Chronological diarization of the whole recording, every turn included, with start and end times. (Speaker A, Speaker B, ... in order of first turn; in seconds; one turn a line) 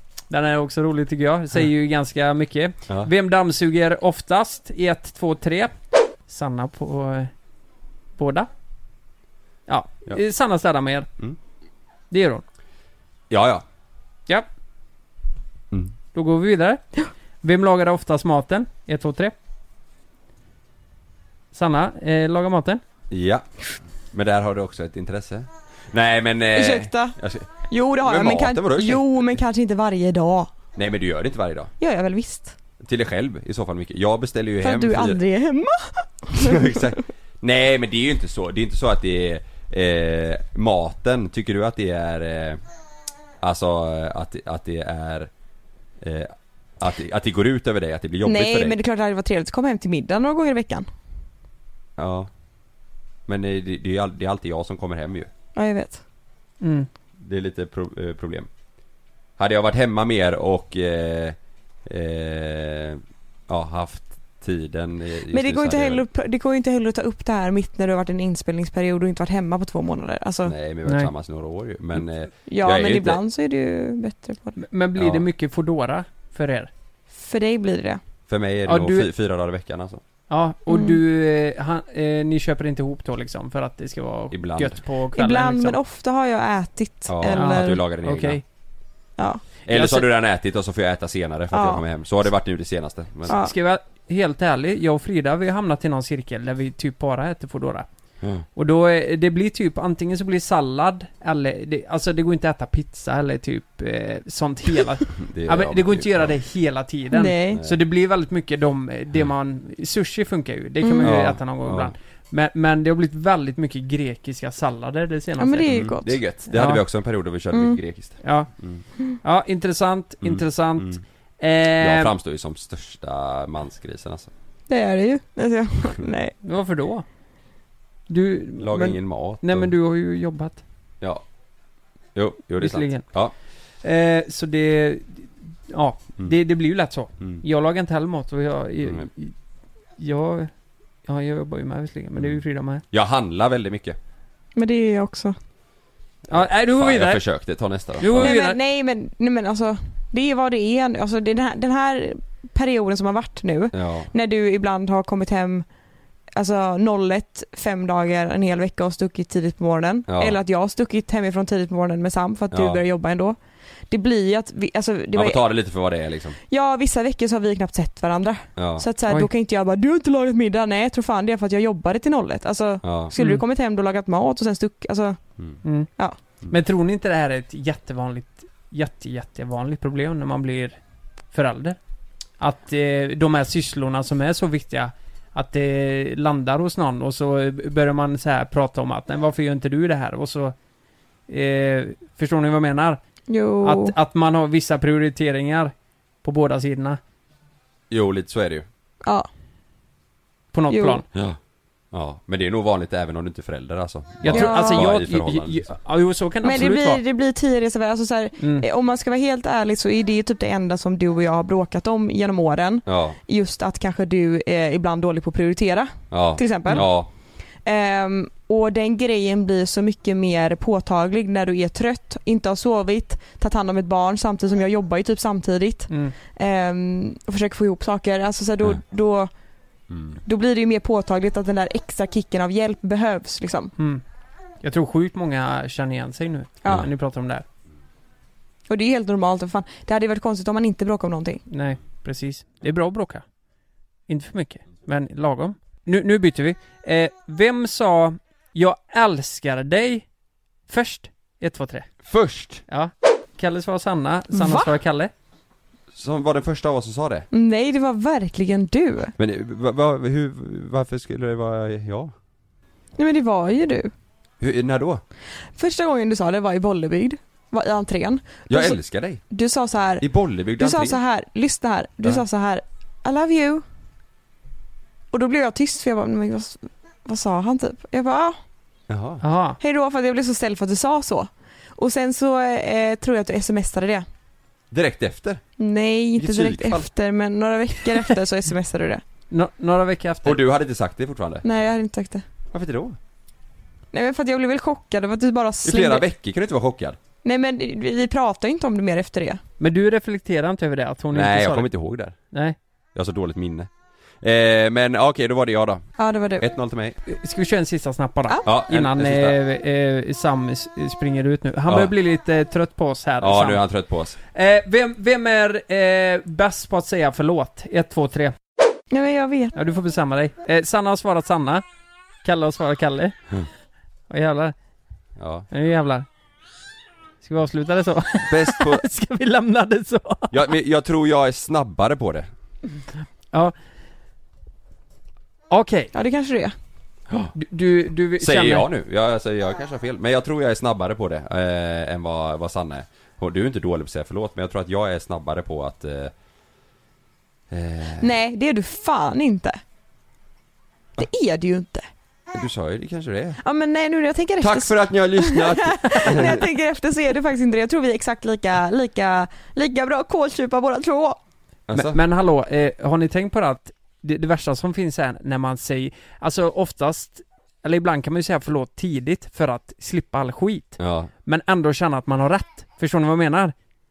Speaker A: 0.3-5.7
Speaker A: 6.3-7.3
Speaker A: 8.2-8.5
Speaker A: 9.7-11.1
Speaker A: 12.1-12.4
Speaker B: 13.3-13.6
Speaker A: 16.1-16.8
Speaker A: 17.4-19.4
Speaker A: 21.5-22.8
Speaker B: 23.1-23.4
Speaker B: 24.1-29.2
Speaker C: 26.6-27.2
Speaker C: 27.7-30.5
Speaker B: 30.8-31.7
Speaker C: 31.8-32.6
Speaker B: 32.8-35.2
Speaker C: 34.6-36.9
Speaker B: 36.4-42.6
Speaker B: 43.4-45.3
Speaker B: 46.0-48.8
Speaker C: 48.2-50.9
Speaker B: 52.0-52.3
Speaker B: 53.3-55.3
Speaker C: 55.6-56.0
Speaker A: 56.6-56.9
Speaker B: 57.2-58.5
Speaker B: 59.4-66.0
Speaker C: 65.3-70.5
Speaker B: 70.5-73.2
Speaker C: 72.5-74.6
Speaker A: 74.6-76.7
Speaker B: 75.0-75.2
Speaker C: 77.1-78.0
Speaker B: 78.3-80.0
Speaker A: 78.7-79.1
Speaker A: 80.3-85.8
Speaker C: 80.7-81.0
Speaker B: 84.3-84.8
Speaker C: 85.2-87.8
Speaker B: 87.1-88.4
Speaker A: 87.3-88.4
Speaker B: 89.7-93.4
Speaker A: 89.7-90.1
Speaker C: 91.5-91.8
Speaker C: 93.3-93.5
Speaker A: 93.3-97.9
Speaker A: 98.6-115.7
Speaker B: 105.2-106.3
Speaker C: 107.1-107.6
Speaker B: 107.5-107.8
Speaker C: 110.8-111.2
Speaker B: 111.0-111.9
Speaker C: 115.4-116.2
Speaker B: 115.7-118.8
Speaker A: 116.5-116.8
Speaker C: 117.5-117.8
Speaker A: 118.2-118.5
Speaker A: 119.2-122.1
Speaker B: 120.2-121.0
Speaker B: 121.8-124.3
Speaker C: 124.7-126.3
Speaker A: 126.4-127.0
Speaker A: 128.1-130.6
Speaker B: 128.6-129.7
Speaker B: 132.2-133.3
Speaker A: 132.6-133.1
Speaker A: 133.8-139.3
Speaker B: 138.8-139.1
Speaker A: 140.0-140.5
Speaker A: 141.1-142.8
Speaker B: 142.2-144.0
Speaker C: 144.6-145.3
Speaker B: 146.3-148.4
Speaker A: 146.3-147.2
Speaker A: 148.0-148.6
Speaker C: 148.2-155.7
Speaker B: 153.7-154.1
Speaker C: 156.4-163.4
Speaker B: 160.1-160.4
Speaker B: 162.5-162.8
Speaker C: 163.9-165.4
Speaker B: 165.1-166.4
Speaker C: 166.5-175.2
Speaker B: 168.6-168.8
Speaker B: 172.8-173.1
Speaker A: 175.6-175.9
Speaker A: 176.5-180.8
Speaker A: 181.3-181.8
Speaker A: 182.4-190.6
Speaker A: 191.3-193.0
Speaker C: 193.3-193.9
Speaker A: 193.6-195.7
Speaker A: 196.2-197.0
Speaker B: 197.9-198.7
Speaker A: 200.5-201.0
Speaker C: 200.7-201.0
Speaker B: 201.1-201.4
Speaker B: 201.9-205.8
Speaker A: 204.2-207.0
Speaker C: 204.3-204.8
Speaker C: 206.4-216.9
Speaker A: 208.4-208.7
Speaker B: 212.9-213.2
Speaker B: 216.1-217.1
Speaker C: 217.7-229.3
Speaker B: 229.9-230.2
Speaker C: 230.2-233.7
Speaker A: 233.8-234.0
Speaker A: 234.6-237.4
Speaker C: 238.7-241.4
Speaker A: 241.5-243.2
Speaker A: 244.1-250.1
Speaker A: 250.7-251.9
Speaker B: 252.0-252.6
Speaker A: 252.7-255.1
Speaker C: 254.3-254.7
Speaker B: 255.9-257.3
Speaker C: 257.3-259.1
Speaker B: 259.2-262.1
Speaker C: 263.0-263.9
Speaker B: 264.4-265.0
Speaker C: 265.6-268.8
Speaker B: 268.5-269.2
Speaker C: 269.3-273.6
Speaker B: 270.0-271.0
Speaker C: 275.1-278.4
Speaker B: 278.9-279.2
Speaker A: 279.2-279.6
Speaker C: 279.6-284.1
Speaker B: 284.7-285.4
Speaker C: 285.6-289.0
Speaker B: 286.2-286.9
Speaker A: 289.3-290.4
Speaker B: 290.2-291.4
Speaker C: 291.4-292.2
Speaker B: 292.5-293.0
Speaker C: 293.9-296.1
Speaker B: 295.6-297.0
Speaker C: 297.2-299.4
Speaker A: 299.6-301.7
Speaker B: 301.1-302.2
Speaker B: 302.9-303.7
Speaker B: 304.2-305.8
Speaker C: 306.0-306.4
Speaker B: 306.4-307.0
Speaker A: 307.1-313.6
Speaker B: 308.4-309.4
Speaker B: 313.2-314.2
Speaker A: 314.3-318.3
Speaker C: 318.9-319.5
Speaker A: 319.6-321.6
Speaker A: 322.2-323.2
Speaker A: 324.1-324.6
Speaker B: 325.2-325.5
Speaker A: 325.5-326.1
Speaker A: 327.2-330.3
Speaker B: 328.3-328.8
Speaker B: 330.3-332.3
Speaker A: 335.5-335.9
Speaker C: 335.9-336.5
Speaker B: 337.1-337.3
Speaker A: 337.4-338.7
Speaker B: 338.2-346.1
Speaker B: 347.5-348.1
Speaker C: 348.0-349.6
Speaker C: 351.0-351.9
Speaker B: 352.3-353.4
Speaker C: 353.4-361.2
Speaker B: 354.4-356.4
Speaker B: 361.7-362.0
Speaker A: 361.7-373.5
Speaker B: 370.8-371.1